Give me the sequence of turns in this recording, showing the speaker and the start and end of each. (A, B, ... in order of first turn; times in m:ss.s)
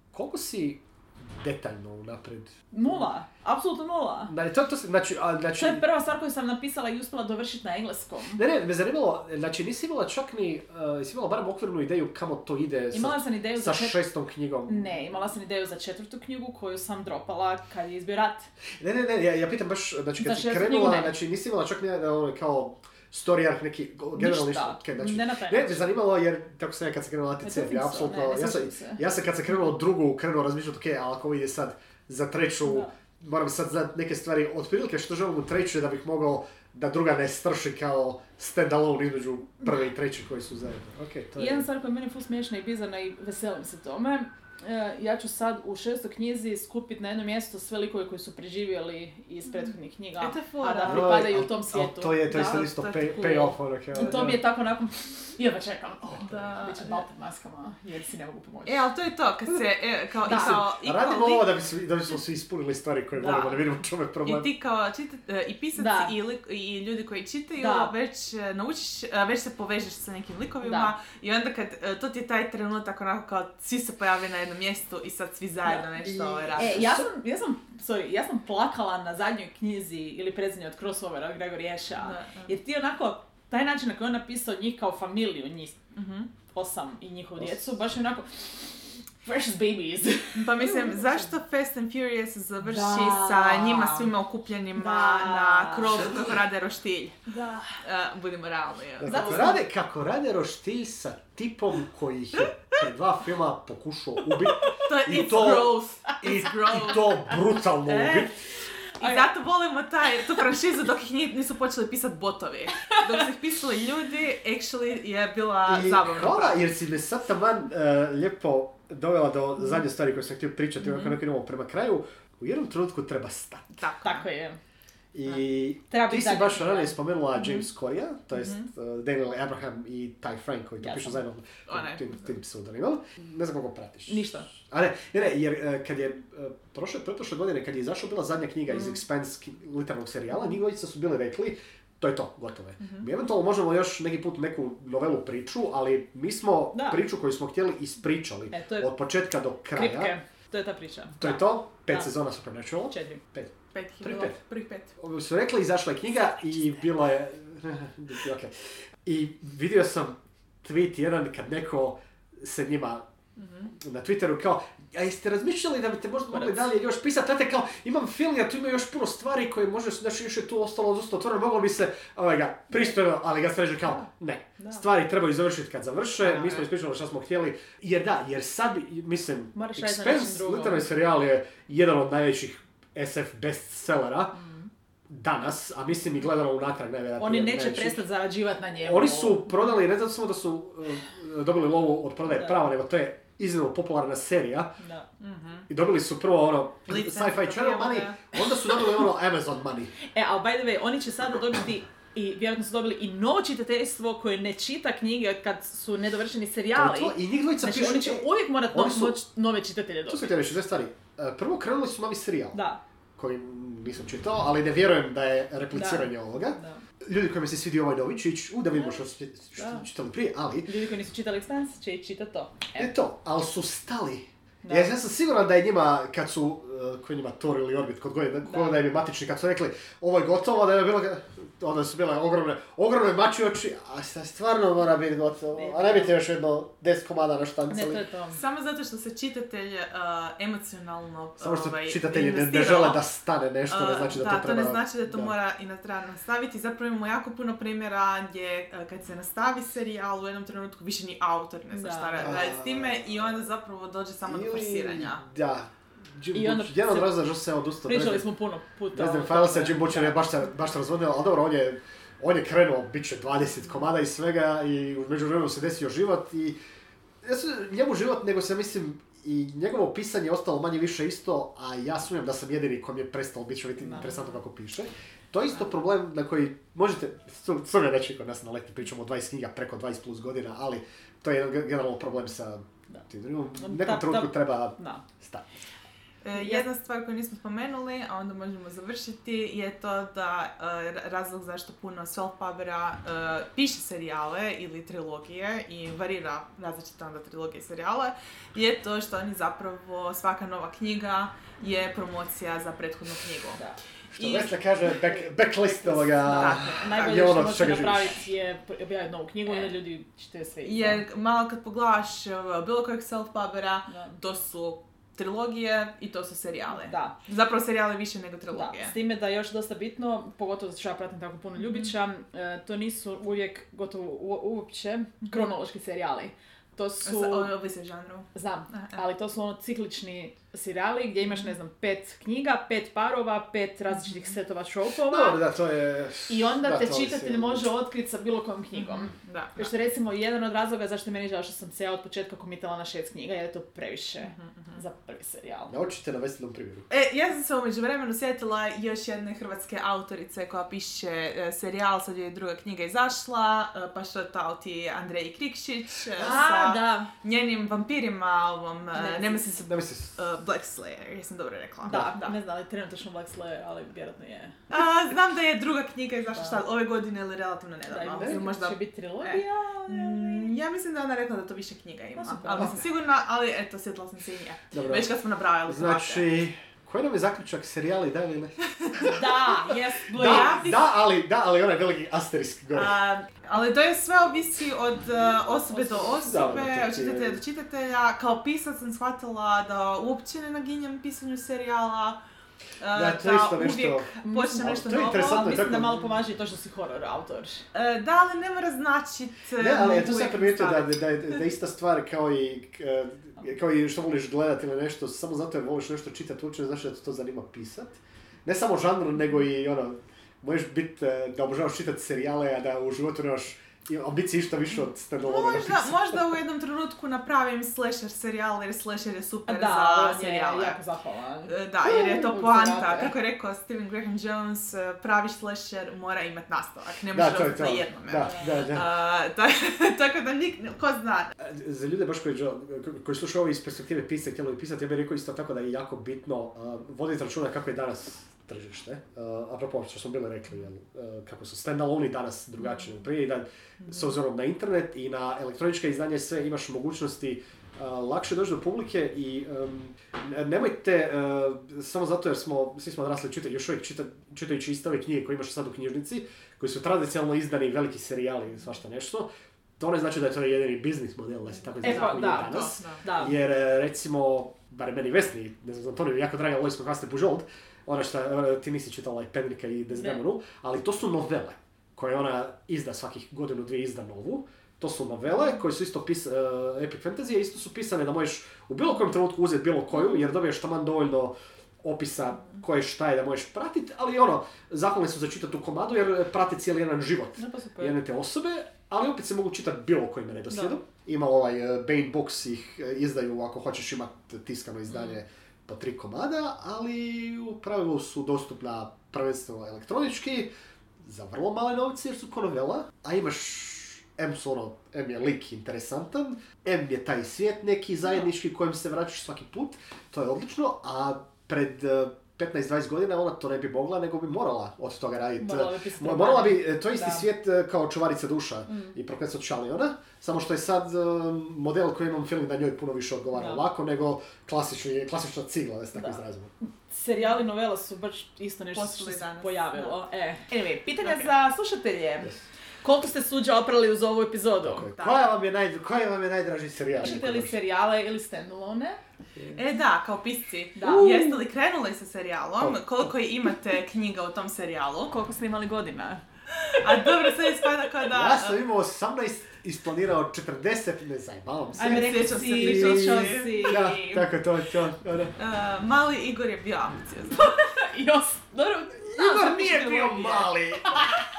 0:00.1-0:03.0 A
0:02.7-0:04.3 B
0:04.3-0:05.9 A
0:05.6-0:08.4 B
0:08.4-0:14.9 A
0:12.9-0:14.0 B
0:14.7-0:18.5 B
0:18.8-0:41.7 A
0:20.2-0:21.2 B
0:24.1-0:25.8 B
0:27.4-0:29.0 B
0:32.7-0:32.9 B
0:41.4-0:58.9 B
0:49.5-0:51.2 C
0:50.9-0:54.4 A
0:52.5-0:54.4 C
0:56.2-0:57.0 C
0:56.2-0:56.5 A
0:58.7-1:01.5 C
1:00.2-1:00.6 B
1:00.3-1:04.5 A
1:03.2-1:03.6 C
1:04.2-1:16.9 C
1:05.8-1:06.1 B
1:07.6-1:07.9 B
1:10.6-1:10.9 B
1:16.0-1:17.1 A
1:16.6-1:25.8 B
1:22.0-1:22.5 C
1:25.9-1:26.3 C
1:26.5-1:31.3 B
1:30.4-1:37.2 C
1:32.6-1:34.1 B
1:34.8-1:36.2 B
1:37.3-1:37.8 B
1:37.8-1:39.5 C
1:39.0-1:48.4 A
1:39.0-1:39.6 B
1:44.8-1:47.2 C
1:47.8-1:48.4 C
1:49.0-1:56.6 C
1:49.0-1:49.3 B
1:55.7-2:03.8 A
2:00.8-2:01.2 C
2:03.8-2:04.3 C
2:04.0-2:04.6 B
2:05.1-2:30.1 A
2:05.9-2:07.0 B
2:07.4-2:07.7 C
2:08.3-2:08.7 C
2:10.8-2:11.2 B
2:11.7-2:12.4 C
2:14.1-2:14.5 B
2:22.8-2:23.1 C
2:26.7-2:27.0 B
2:28.5-2:28.9 B
2:29.7-2:32.1 B
2:31.2-2:34.4 A
2:32.9-2:33.2 B
2:33.7-2:34.9 C
2:35.0-2:38.5 A
2:39.0-2:43.1 A
2:43.4-2:43.7 C
2:43.7-3:04.4 A
2:46.3-2:46.7 B
2:52.7-2:53.0 B
2:56.2-2:56.7 C
2:59.6-3:00.9 B
3:04.3-3:04.7 B
3:05.1-3:08.0 A
3:07.2-3:09.5 B
3:08.8-3:14.8 A
3:12.3-3:12.6 B
3:14.8-3:15.1 B
3:15.2-3:15.7 C
3:15.7-3:19.9 A
3:16.9-3:18.3 C
3:20.1-3:30.3 B
3:26.8-3:29.2 A
3:30.1-3:32.6 A
3:32.5-3:32.8 B
3:33.2-3:40.7 A
3:35.7-3:36.8 B
3:39.6-3:39.9 B
3:40.6-3:42.9 B
3:42.8-3:58.0 A
3:44.6-3:45.0 B
3:48.4-3:48.8 B
3:55.5-3:56.2 B
3:57.7-3:58.4 B
3:58.3-4:03.0 C
4:01.4-4:05.3 A
4:03.7-4:15.2 C
4:11.7-4:12.4 B
4:12.2-4:13.1 A
4:14.3-4:18.3 A
4:16.3-4:17.2 B
4:17.9-4:20.2 B
4:18.9-4:26.6 A
4:27.2-4:45.5 A
4:33.8-4:34.4 B
4:43.6-4:45.0 B
4:46.2-5:03.6 C
4:46.3-4:46.7 B
5:03.6-5:03.8 B
5:04.1-5:08.2 A
5:04.2-5:04.5 C
5:05.1-5:11.0 B
5:06.2-5:07.4 C
5:10.6-5:19.0 C
5:13.9-5:14.2 B
5:16.7-5:17.2 B
5:18.5-5:27.5 B
5:21.6-5:21.9 C
5:27.0-5:29.0 C
5:28.4-5:35.4 B
5:33.9-5:34.4 C
5:35.0-5:37.7 A
5:36.3-5:45.7 B
5:38.8-5:39.7 C
5:44.2-5:44.8 C
5:45.7-5:46.9 A
5:46.9-6:02.4 C
5:56.2-5:57.1 B
5:58.9-5:59.5 B
5:59.7-6:00.2 A
6:01.8-6:04.6 B
6:01.9-6:02.1 A
6:04.7-6:16.3 C
6:06.3-6:06.6 B
6:07.9-6:10.5 B
6:08.2-6:08.4 A
6:12.2-6:12.8 B
6:14.7-6:15.1 A
6:15.7-6:23.0 A
6:18.8-6:19.2 C
6:19.0-6:20.8 B
6:20.2-6:20.8 C
6:22.7-6:32.2 C
6:25.7-6:26.4 B
6:26.2-6:27.4 A
6:32.8-6:35.6 C
6:32.9-6:36.2 A
6:34.2-6:37.7 B
6:37.7-6:40.9 C
6:39.6-6:56.4 A
6:54.7-7:00.8 C
6:59.5-7:03.1 B
7:01.5-7:11.3 C
7:07.1-7:08.9 A
7:08.2-7:08.6 B
7:11.4-7:39.3 A
7:39.8-8:46.5 A
7:41.7-7:43.0 C
7:41.8-7:43.4 B
7:49.9-7:50.2 B
8:07.4-8:08.0 B
8:10.5-8:10.8 B
8:35.4-8:37.3 B
8:38.7-8:39.0 B
8:43.3-8:43.6 B
8:46.0-8:54.9 B
8:48.7-8:50.0 C
8:51.0-8:51.3 C
8:54.6-8:57.6 A
8:54.9-8:55.2 C
8:57.0-8:59.0 B
8:59.5-9:05.1 C
9:00.8-9:01.4 B
9:02.6-9:03.1 A
9:05.1-9:06.2 B
9:06.6-9:08.6 C
9:08.1-9:15.4 A
9:11.8-9:14.2 B
9:11.8-9:14.0 C
9:15.4-9:17.6 C
9:17.4-9:21.2 B
9:19.0-9:21.1 A